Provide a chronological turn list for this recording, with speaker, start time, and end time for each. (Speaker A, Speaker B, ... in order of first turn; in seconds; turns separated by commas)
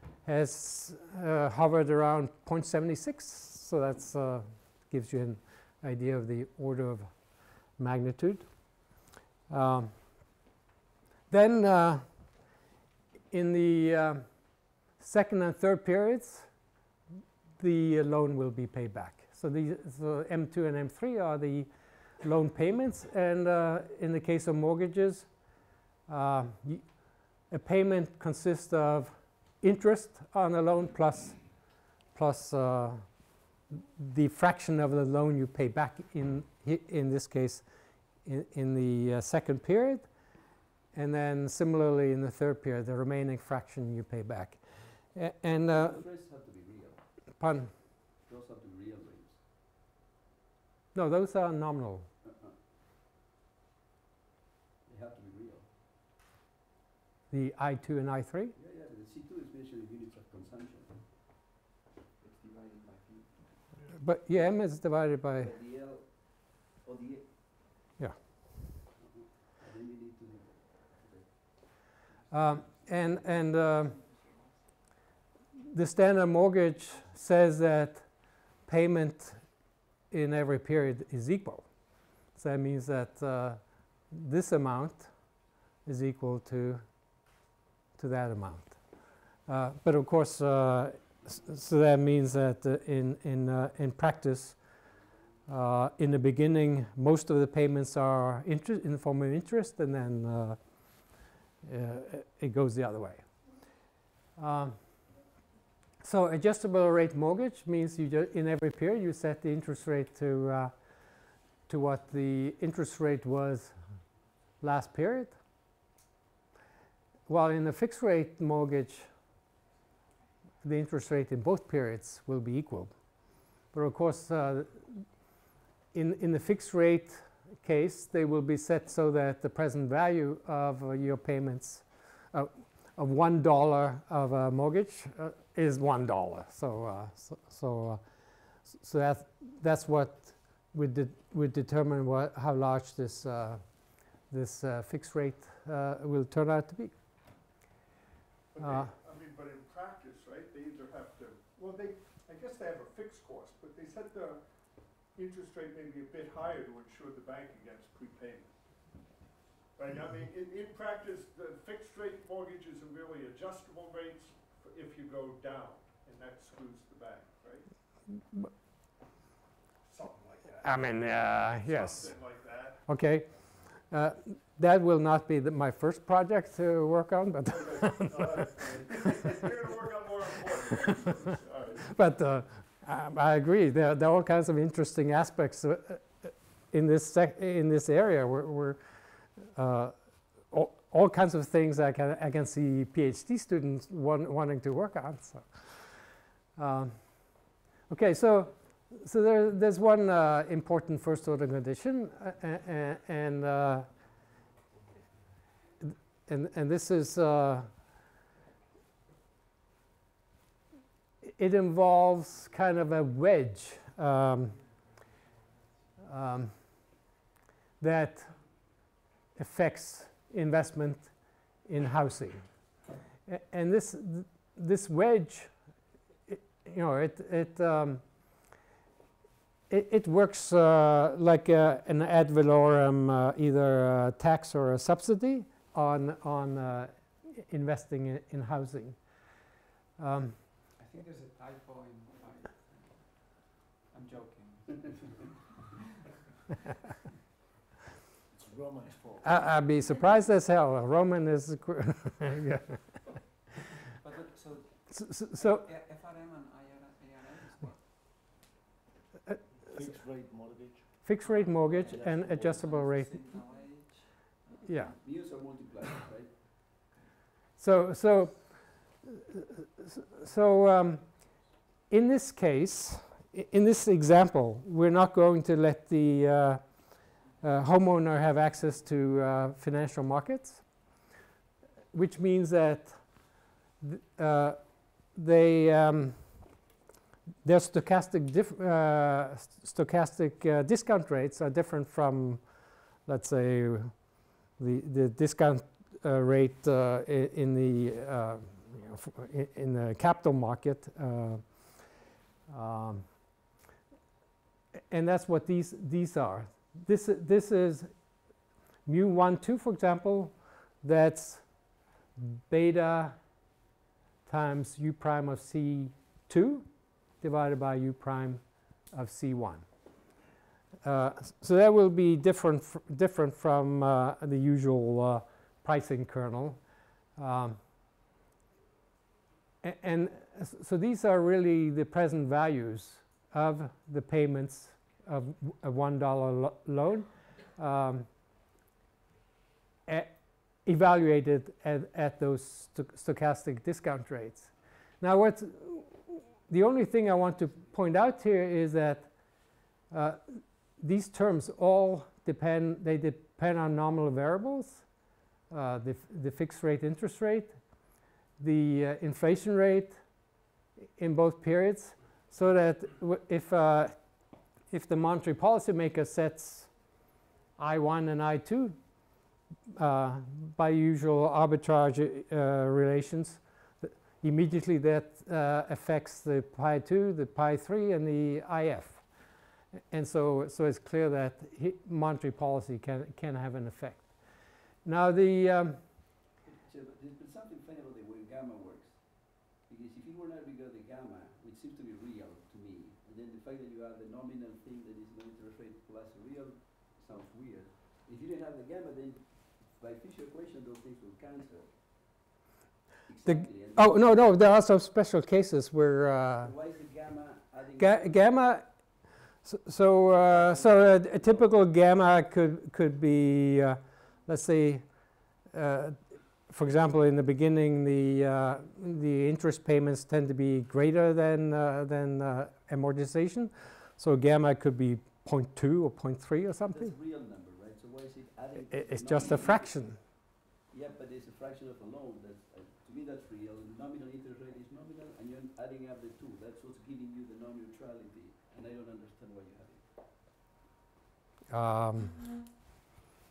Speaker A: 0.2-7.1, Speaker A: 7.8-8.4, Speaker A: 9.5-9.9, Speaker A: 11.3-12.1, Speaker A: 13.3-14.2, Speaker A: 15.0-16.5, Speaker A: 17.6-21.7, Speaker A: 22.2-25.3, Speaker A: 26.1-26.9, Speaker A: 27.5-31.4, Speaker A: 32.1-33.0, Speaker A: 33.7-37.6, Speaker A: 38.2-40.1, Speaker A: 40.9-44.6, Speaker A: 45.1-46.0, Speaker B: 45.7-47.0, Speaker A: 47.4-47.7, Speaker B: 48.2-49.4, Speaker A: 50.9-52.1, Speaker B: 52.2-52.6, Speaker B: 54.9-55.7, Speaker A: 57.3-58.5, Speaker B: 58.5-61.0, Speaker C: 62.2-63.7, Speaker A: 64.0-65.5, Speaker B: 65.3-67.8, Speaker A: 68.0-68.4, Speaker B: 69.0-71.7, Speaker C: 72.1-74.9, Speaker A: 72.3-74.0, Speaker A: 75.7-79.4, Speaker A: 80.1-81.7, Speaker A: 82.3-85.1, Speaker A: 85.8-86.8, Speaker A: 88.0-88.8, Speaker A: 89.5-94.6, Speaker A: 95.5-100.6, Speaker A: 101.6-103.3, Speaker A: 104.4-104.8, Speaker A: 106.0-110.7, Speaker A: 111.7-113.8, Speaker A: 114.6-115.4, Speaker A: 117.3-119.1, Speaker A: 120.6-123.0, Speaker A: 123.5-125.0, Speaker A: 125.9-138.0, Speaker A: 138.7-146.9, Speaker D: 148.5-154.4, Speaker A: 148.6-148.9, Speaker D: 155.2-158.5, Speaker D: 159.8-167.7, Speaker D: 169.8-172.8, Speaker A: 170.6-172.2, Speaker A: 172.8-179.3, Speaker D: 177.5-181.9, Speaker A: 181.9-188.8, Speaker A: 189.4-196.0, Speaker A: 196.6-203.9, Speaker A: 205.8-207.7, Speaker A: 211.2-214.6, Speaker A: 216.0-216.6, Speaker A: 217.8-218.4, Speaker A: 219.4-221.1, Speaker A: 221.7-222.5, Speaker A: 223.3-225.5, Speaker A: 226.3-228.0, Speaker A: 229.7-239.0, Speaker A: 240.0-240.4, Speaker C: 240.8-245.4, Speaker E: 248.3-249.4, Speaker A: 249.2-253.0, Speaker C: 253.9-257.9, Speaker A: 254.9-255.7, Speaker E: 259.7-260.9, Speaker A: 261.0-263.1, Speaker C: 261.2-264.7, Speaker B: 261.7-262.6, Speaker A: 264.7-264.9, Speaker B: 265.0-266.4, Speaker A: 267.6-271.4, Speaker A: 271.9-280.7, Speaker A: 281.9-283.1, Speaker A: 283.8-286.4, Speaker A: 287.4-292.4, Speaker A: 293.1-294.0, Speaker A: 294.6-301.6, Speaker A: 302.5-303.1, Speaker A: 304.9-307.9, Speaker A: 308.9-311.4, Speaker A: 312.2-313.2, Speaker A: 314.3-316.7, Speaker A: 317.2-319.6, Speaker A: 320.8-326.6, Speaker A: 327.2-327.6, Speaker A: 329.6-338.1, Speaker A: 339.9-340.1, Speaker A: 340.6-349.1, Speaker A: 349.9-354.9, Speaker A: 355.5-357.6, Speaker A: 358.4-360.0, Speaker A: 361.0-364.0, Speaker A: 364.7-366.7, Speaker A: 367.6-368.8, Speaker A: 369.7-379.1, Speaker A: 379.9-384.2, Speaker A: 384.8-385.8, Speaker B: 386.4-402.0, Speaker B: 403.1-404.1, Speaker A: 403.3-406.5, Speaker B: 406.4-408.3, Speaker A: 407.8-408.7, Speaker A: 409.4-414.8, Speaker B: 410.1-411.4, Speaker A: 415.5-426.9, Speaker B: 426.7-439.9, Speaker A: 428.7-430.0, Speaker A: 441.5-442.2